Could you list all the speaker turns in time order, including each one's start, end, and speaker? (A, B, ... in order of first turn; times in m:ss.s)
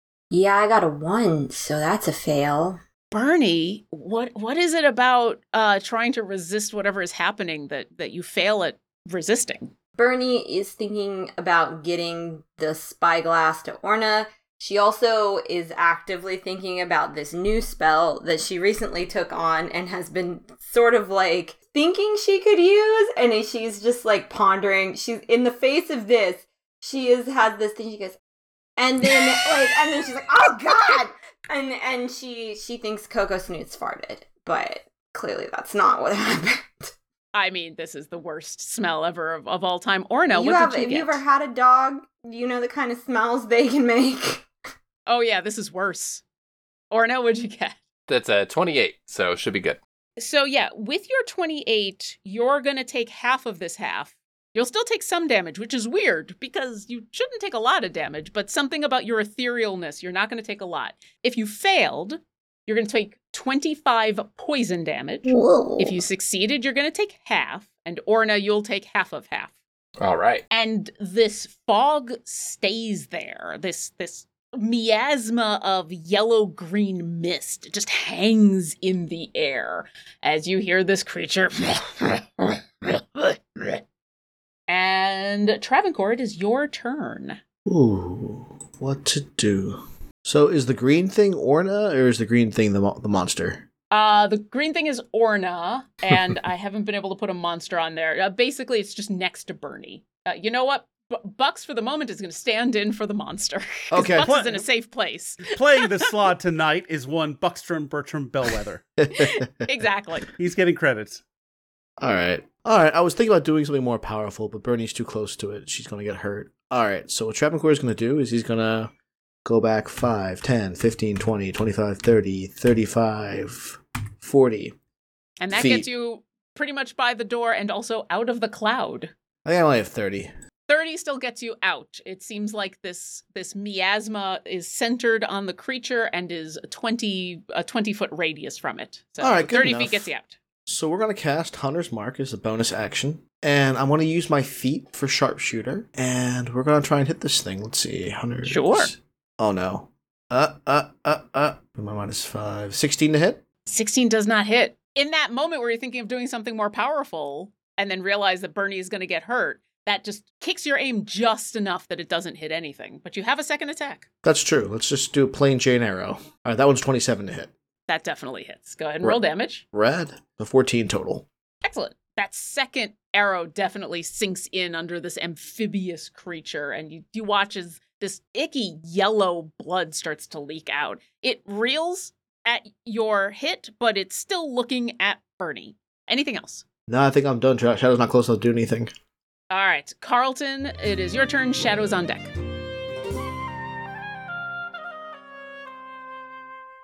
0:00.3-0:02.8 A
0:03.1-0:09.7 B
0:10.0-0:28.2 A
0:28.8-0:36.9 A
0:37.3-0:41.2 B
0:40.3-0:44.5 A
0:45.1-0:46.2 B
0:46.9-0:47.8 B
0:48.1-0:49.8 C
0:50.2-1:09.5 B
1:05.3-1:06.0 A
1:10.0-1:10.4 C
1:10.5-1:23.8 B
1:24.7-1:27.4 B
1:27.6-1:33.7 D
1:33.9-1:46.0 B
1:43.9-1:44.3 D
1:44.2-1:44.6 E
1:45.4-1:48.8 E
1:49.0-1:49.5 D
1:49.6-1:50.3 B
1:50.4-1:51.2 E
1:52.0-1:58.9 D
1:59.4-2:04.8 D
2:05.4-2:09.1 B
2:05.5-2:05.8 D
2:09.4-2:10.3 D
2:10.7-2:20.4 B
2:19.2-2:20.1 D
2:20.7-2:33.4 D
2:28.4-2:28.9 B
2:33.7-2:44.0 B
2:44.2-2:47.5 D
2:47.9-2:49.6 B
2:49.7-2:51.2 D
2:51.6-3:06.6 B
3:06.9-3:08.9 D
3:09.5-3:12.3 B